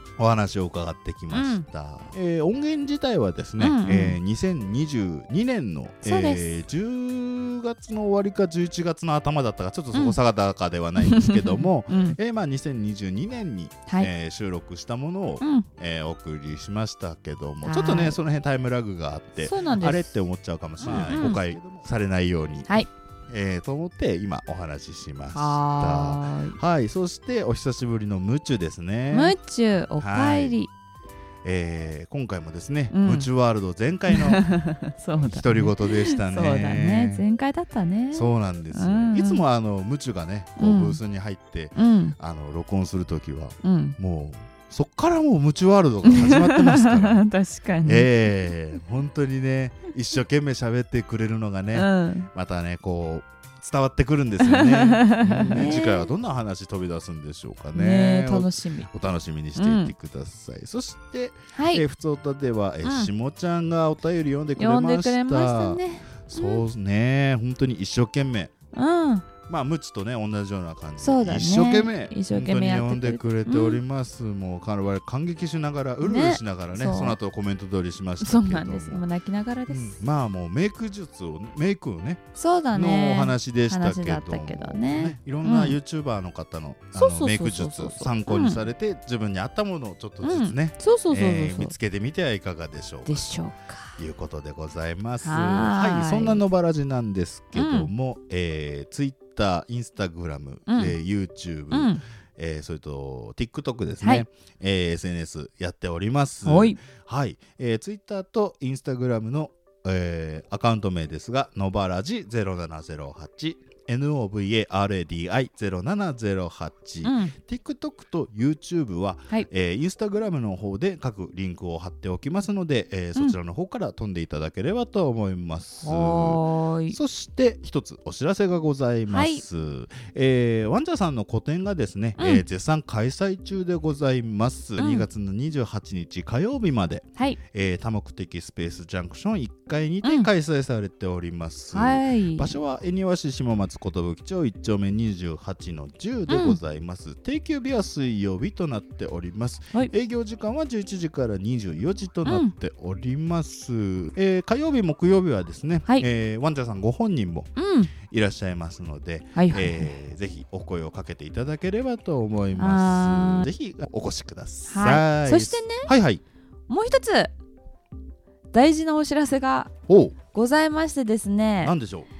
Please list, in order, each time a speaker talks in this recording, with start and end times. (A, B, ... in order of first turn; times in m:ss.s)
0:00.2-0:22.8 A
0:01.3-0:01.6 B
0:03.6-0:04.2 B
0:06.0-0:06.6 B
0:11.0-0:12.2 B
0:13.9-0:14.1 B
0:15.4-0:15.6 B
0:17.6-0:18.2 B
0:19.4-0:20.1 B
0:20.8-0:21.5 B
0:23.3-0:29.4 A
0:25.3-0:26.6 B
0:29.1-0:30.7 B
0:30.0-0:30.6 A
0:31.4-0:34.4 A
0:32.9-0:33.3 B
0:34.1-0:39.4 B
0:35.2-0:37.2 A
0:38.1-0:47.2 A
0:40.6-0:41.0 B
0:41.7-0:42.2 B
0:43.6-0:44.0 B
0:46.0-0:48.1 B
0:47.8-1:08.5 A
0:51.7-0:52.3 B
0:54.4-0:56.1 B
0:57.7-0:58.9 B
0:59.5-0:59.9 B
1:01.5-1:01.8 B
1:02.8-1:03.1 B
1:04.6-1:06.6 B
1:08.7-1:09.3 B
1:09.5-1:19.0 A
1:11.0-1:13.8 B
1:16.0-1:17.2 B
1:18.2-1:20.0 B
1:19.7-1:33.3 A
1:22.4-1:25.8 B
1:26.9-1:28.6 B
1:30.2-1:31.7 B
1:33.0-1:34.0 B
1:34.0-2:46.2 A
1:35.2-1:36.4 B
1:37.5-1:37.9 B
1:40.7-1:41.0 B
1:41.7-1:42.0 B
1:46.4-1:46.8 B
1:57.0-1:57.3 B
2:05.8-2:07.0 B
2:09.1-2:09.4 B
2:12.2-2:12.4 B
2:14.8-2:15.1 B
2:20.0-2:20.3 B
2:21.7-2:22.6 B
2:26.3-2:26.6 B
2:32.2-2:32.5 B
2:37.6-2:37.9 B
2:39.3-2:39.9 B
2:42.6-2:43.5 B
2:44.7-2:45.9 B
2:46.7-2:47.3 B
2:48.5-2:49.7 B
2:49.9-2:50.2 A
2:50.3-2:51.7 B
2:51.6-2:52.1 A